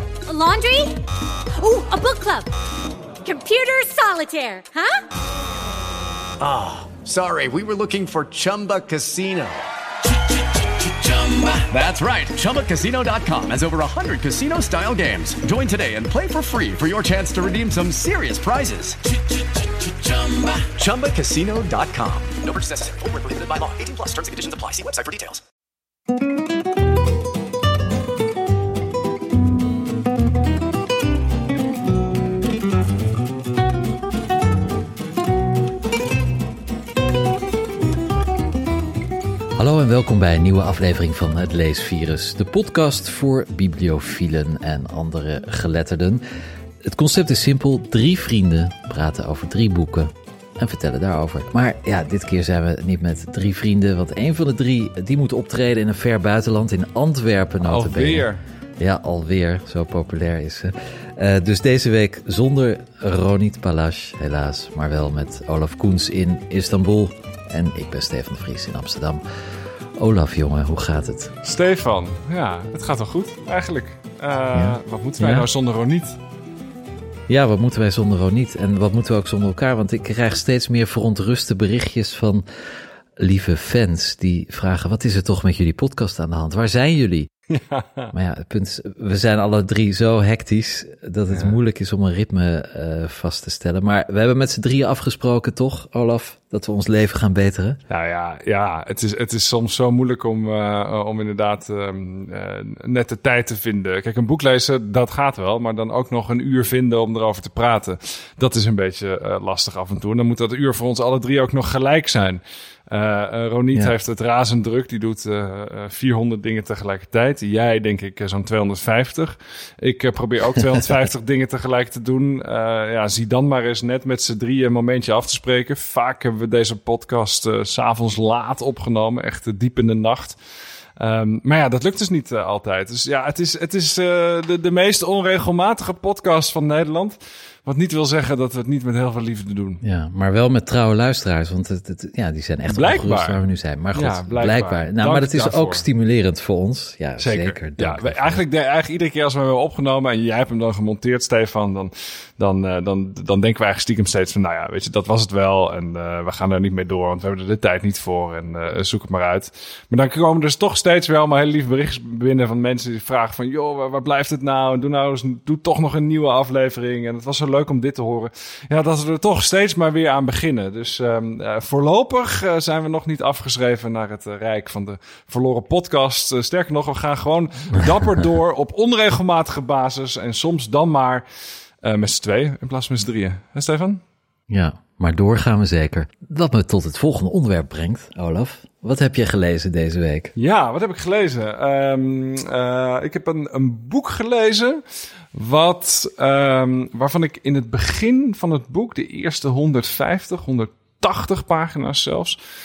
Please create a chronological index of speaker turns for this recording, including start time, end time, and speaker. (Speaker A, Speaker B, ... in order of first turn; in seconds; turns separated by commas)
Speaker A: 0.3-1.0, Speaker A: 1.6-2.5, Speaker A: 3.2-5.0, Speaker B: 6.4-9.6, Speaker B: 11.1-19.0, Speaker B: 20.1-25.4, Speaker C: 39.5-46.2, Speaker C: 46.8-69.2, Speaker D: 57.6-58.4, Speaker C: 70.0-71.3, Speaker D: 71.4-76.2, Speaker C: 74.5-75.5, Speaker C: 77.3-82.5, Speaker C: 83.2-87.3, Speaker D: 87.5-88.1, Speaker C: 88.1-97.8, Speaker D: 91.3-91.5, Speaker D: 97.9-130.4, Speaker D: 131.0-139.8, Speaker C: 139.8-148.4, Speaker D: 142.7-145.8, Speaker D: 147.2-181.2, Speaker D: 181.8-184.0, Speaker C: 184.5-190.3, Speaker D: 190.4-194.8, Speaker D: 195.3-202.4